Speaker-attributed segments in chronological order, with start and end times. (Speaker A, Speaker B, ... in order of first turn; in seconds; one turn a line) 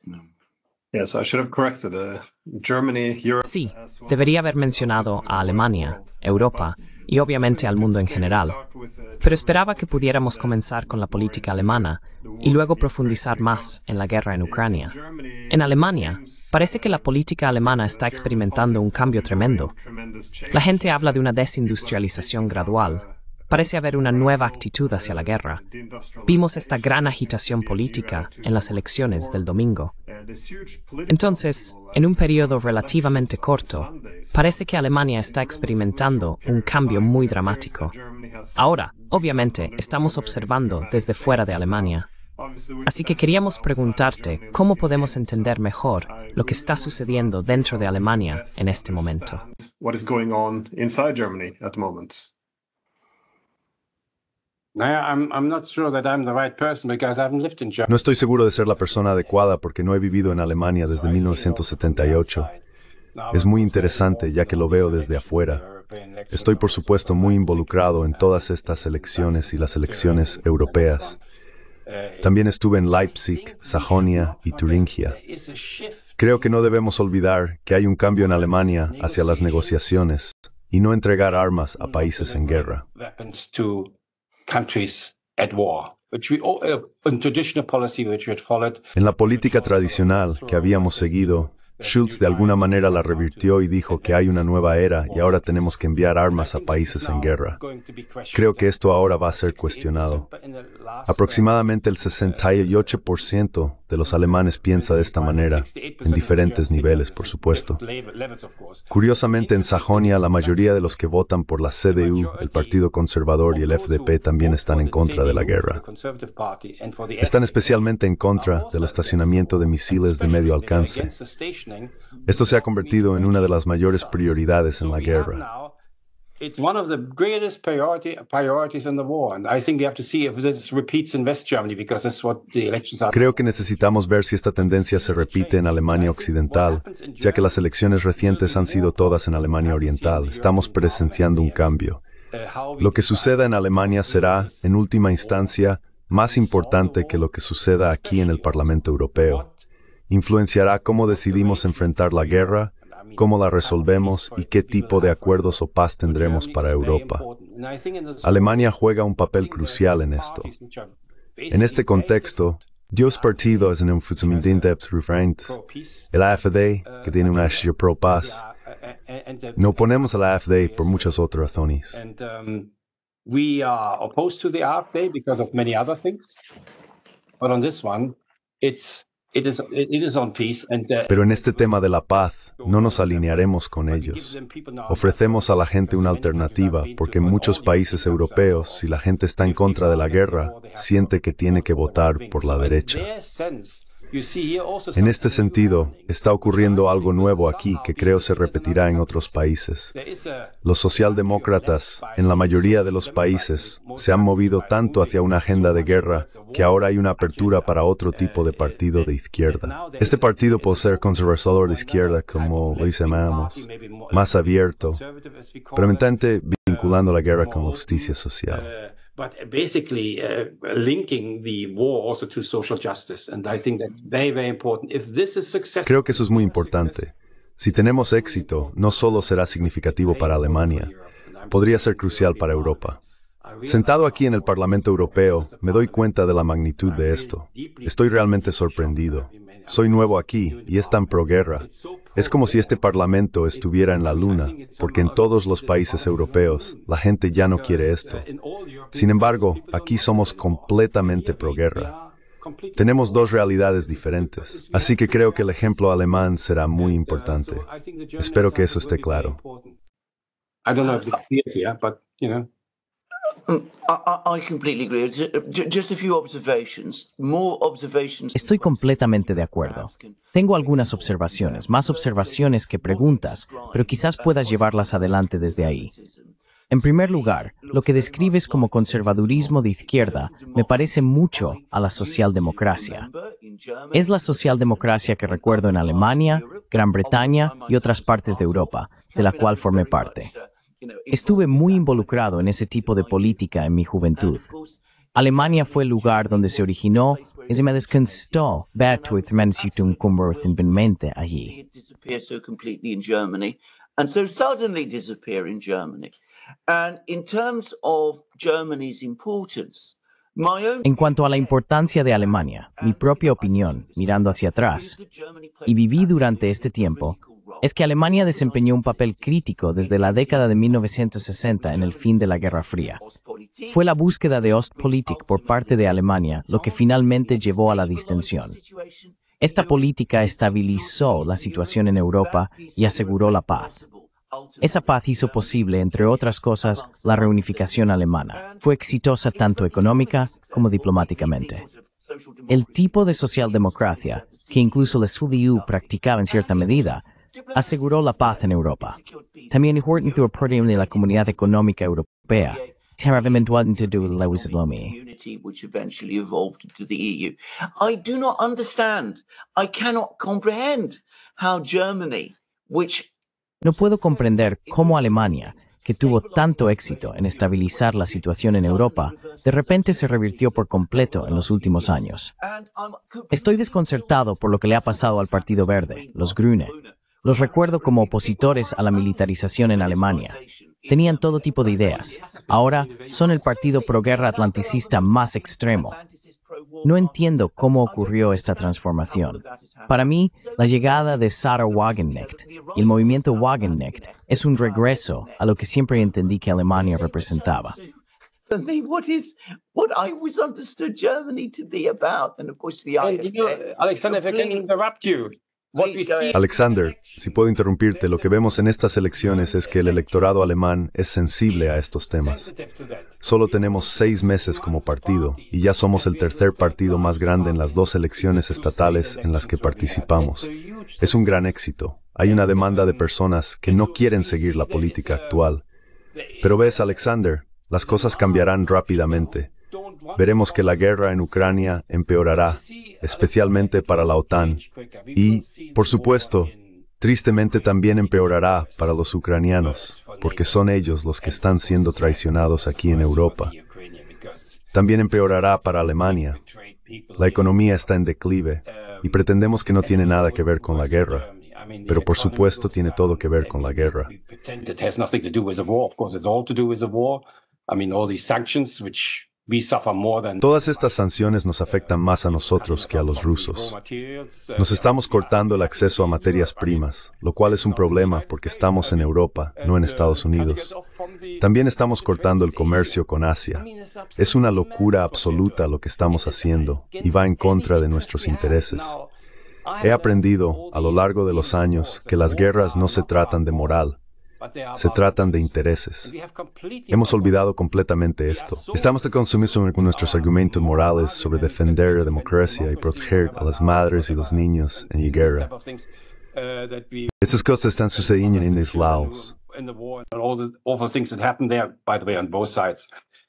Speaker A: 0.9-13.8
Speaker B: 3.4-8.6
Speaker B: 9.2-15.0
Speaker A: 14.3-17.1
Speaker B: 15.5-19.7
Speaker A: 17.8-29.5
Speaker B: 20.5-25.6
Speaker B: 26.2-29.9
Speaker A: 30.1-52.3
Speaker B: 31.1-37.9
Speaker B: 38.6-42.1
Speaker B: 42.9-49.4
Speaker C: 54.8-59.5
Speaker D: 57.9-62.5
Speaker C: 60.4-62.6
Speaker C: 63.1-71.2
Speaker D: 63.3-65.6
Speaker D: 66.3-71.2
Speaker C: 71.8-72.4
Speaker D: 72.2-75.2
Speaker C: 72.9-76.5
Speaker D: 76.2-82.8
Speaker C: 78.1-80.0
Speaker C: 81.7-83.9
Speaker C: 84.5-103.0
Speaker D: 89.0-97.6
Speaker D: 98.3-100.3
Speaker D: 101.1-107.8
Speaker C: 104.0-111.0
Speaker D: 108.9-115.8
Speaker C: 111.9-112.8
Speaker C: 113.5-125.7
Speaker D: 117.2-121.1
Speaker D: 122.3-125.4
Speaker C: 126.4-133.5
Speaker D: 133.1-142.0
Speaker C: 134.6-141.8
Speaker C: 142.3-149.6
Speaker D: 142.8-149.5
Speaker D: 150.1-157.2
Speaker C: 151.1-158.8
Speaker D: 158.2-160.5
Speaker C: 159.3-164.8
Speaker D: 161.5-165.5
Speaker C: 165.4-166.1
Speaker D: 166.1-168.4
Speaker C: 166.8-171.3
Speaker D: 169.6-172.0
Speaker C: 171.9-172.7
Speaker C: 173.2-176.4
Speaker C: 177.4-181.8
Speaker D: 181.1-184.4
Speaker C: 182.4-188.9
Speaker D: 184.9-193.1
Speaker C: 189.4-227.1
Speaker D: 194.9-199.9
Speaker D: 200.6-215.0
Speaker D: 215.7-218.7
Speaker D: 225.8-230.9
Speaker C: 227.7-242.8
Speaker D: 231.5-233.0
Speaker D: 233.7-248.2
Speaker C: 243.5-256.1
Speaker D: 248.9-251.9
Speaker D: 252.8-257.6
Speaker C: 256.8-259.8
Speaker D: 258.2-259.4
Speaker C: 260.6-262.5
Speaker E: 263.5-293.4
Speaker F: 268.3-275.9
Speaker F: 276.7-283.1
Speaker F: 283.9-290.3
Speaker F: 291.1-294.5
Speaker E: 294.1-306.1
Speaker F: 295.1-301.6
Speaker E: 306.7-351.6
Speaker F: 310.8-315.0
Speaker F: 315.6-323.0
Speaker F: 323.7-328.6
Speaker F: 329.4-333.7
Speaker F: 334.6-341.6
Speaker F: 342.5-349.0
Speaker F: 349.5-354.9
Speaker E: 352.3-363.1
Speaker F: 363.6-372.3
Speaker E: 363.6-398.0
Speaker F: 373.3-380.4
Speaker F: 380.9-386.0
Speaker C: 381.8-383.4
Speaker F: 386.8-397.8
Speaker E: 398.5-404.7
Speaker C: 403.0-410.4
Speaker E: 405.8-406.4
Speaker D: 406.3-412.5
Speaker C: 411.4-421.5
Speaker D: 413.2-420.5
Speaker D: 421.0-425.6
Speaker C: 422.2-425.5
Speaker C: 426.1-431.7
Speaker D: 426.4-429.5
Speaker D: 430.2-434.6
Speaker C: 432.2-444.7
Speaker D: 435.1-443.5
Speaker D: 444.7-446.4
Speaker C: 445.7-447.9
Speaker D: 447.2-451.3
Speaker C: 448.6-449.3
Speaker C: 449.8-479.1
Speaker D: 451.9-454.1
Speaker D: 460.4-463.8
Speaker D: 464.6-470.8
Speaker D: 471.4-473.7
Speaker D: 474.2-479.0
Speaker C: 479.6-483.9
Speaker D: 479.8-484.0
Speaker C: 484.4-487.5
Speaker D: 484.8-486.1
Speaker D: 486.9-495.5
Speaker C: 488.2-502.9
Speaker D: 497.2-499.3